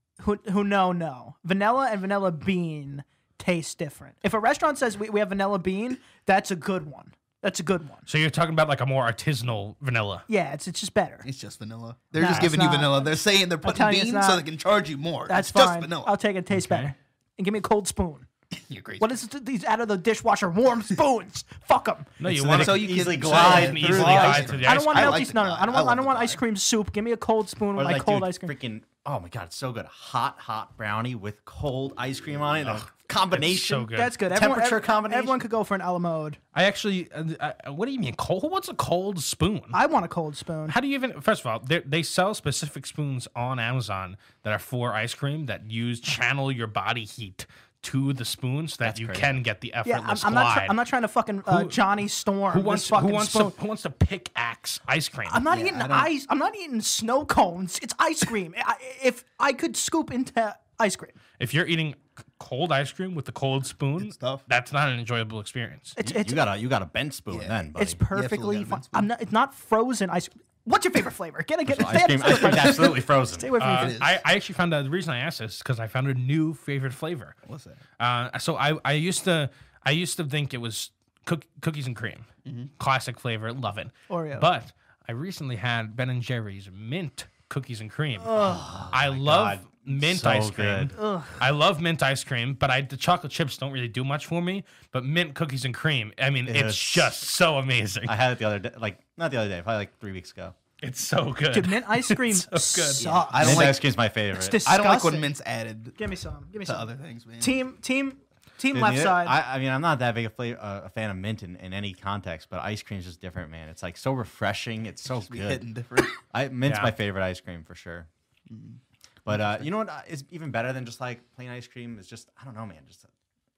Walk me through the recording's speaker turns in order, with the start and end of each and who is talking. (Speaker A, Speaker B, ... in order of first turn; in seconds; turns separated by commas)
Speaker A: 0.2-8.1, Speaker B: 8.1-10.2, Speaker A: 10.3-11.3, Speaker C: 11.2-16.1, Speaker A: 12.2-14.4, Speaker A: 15.3-18.3, Speaker B: 16.5-16.9, Speaker C: 18.5-19.1, Speaker A: 19.0-22.1, Speaker B: 22.2-25.3, Speaker C: 22.3-26.4, Speaker D: 22.5-24.7, Speaker A: 24.6-28.5, Speaker D: 27.8-35.4, Speaker B: 33.3-34.1, Speaker A: 33.9-36.4, Speaker B: 36.5-39.8, Speaker A: 39.7-40.8, Speaker B: 40.7-50.8, Speaker D: 48.9-49.4, Speaker A: 49.9-53.5, Speaker B: 51.5-51.8, Speaker B: 52.5-55.4, Speaker A: 55.3-61.1, Speaker C: 55.5-56.1, Speaker B: 61.4-66.0, Speaker C: 64.0-64.4, Speaker A: 66.0-66.4, Speaker D: 66.0-68.0, Speaker C: 67.3-67.6, Speaker A: 67.8-74.0, Speaker C: 68.1-69.1, Speaker D: 71.7-73.5, Speaker B: 73.6-77.4, Speaker C: 73.6-74.2, Speaker C: 77.5-77.8, Speaker B: 78.0-82.3, Speaker C: 82.5-82.7, Speaker B: 82.8-98.2, Speaker A: 84.1-84.5, Speaker D: 88.2-91.0, Speaker A: 91.0-91.4, Speaker D: 96.5-97.2, Speaker D: 98.0-100.5, Speaker B: 100.8-103.0, Speaker A: 101.5-103.8, Speaker C: 103.0-103.8, Speaker D: 103.4-104.6, Speaker A: 104.3-105.3, Speaker C: 104.7-106.0, Speaker A: 106.0-109.4, Speaker C: 106.7-107.6, Speaker D: 108.7-118.1, Speaker C: 115.3-116.2, Speaker B: 116.7-116.9, Speaker C: 118.5-118.8, Speaker D: 119.3-123.1